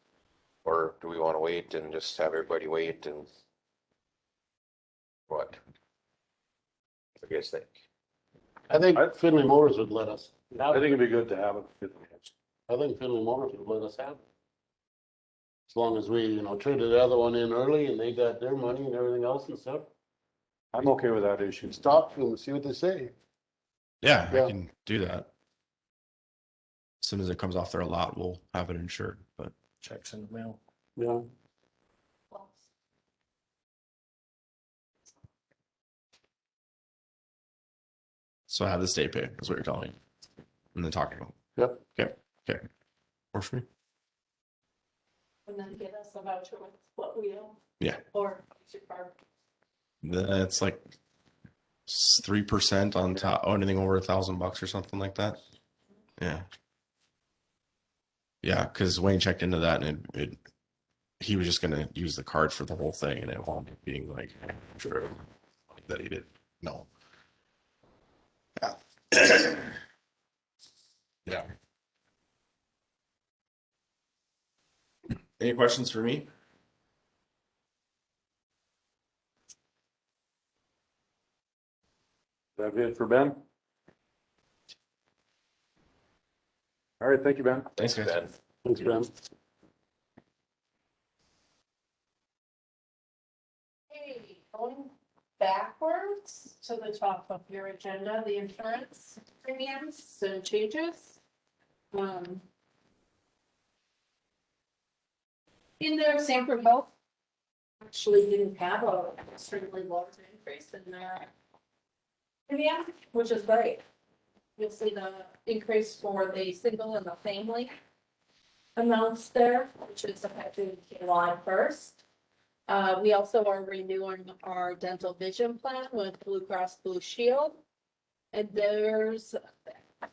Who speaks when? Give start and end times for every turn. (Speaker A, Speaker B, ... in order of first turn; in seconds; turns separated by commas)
Speaker A: 0.6-3.3, Speaker A: 5.3-5.6, Speaker A: 7.2-7.8, Speaker B: 8.7-10.8, Speaker C: 8.9-9.2, Speaker C: 10.5-12.3, Speaker B: 12.7-14.2, Speaker B: 15.7-19.9, Speaker C: 20.7-21.9, Speaker B: 21.7-23.1, Speaker D: 24.0-25.3, Speaker D: 27.0-29.5, Speaker B: 31.0-31.3, Speaker D: 38.5-40.0, Speaker D: 40.8-42.6, Speaker D: 43.3-43.7, Speaker E: 45.5-49.2, Speaker D: 50.0-50.9, Speaker D: 51.9-55.4, Speaker D: 56.2-56.5, Speaker D: 58.4-60.4, Speaker D: 61.2-65.2, Speaker D: 65.8-66.9, Speaker D: 68.6-69.7, Speaker D: 75.4-76.3, Speaker C: 82.6-83.4, Speaker C: 87.0-87.7, Speaker D: 87.8-88.2, Speaker A: 87.9-88.3, Speaker B: 88.7-89.1, Speaker E: 93.9-101.2, Speaker E: 101.9-102.4, Speaker E: 105.8-106.9, Speaker E: 107.8-111.3, Speaker E: 112.5-113.8, Speaker E: 114.6-117.7, Speaker E: 118.8-122.0, Speaker E: 122.7-127.6, Speaker E: 128.3-129.4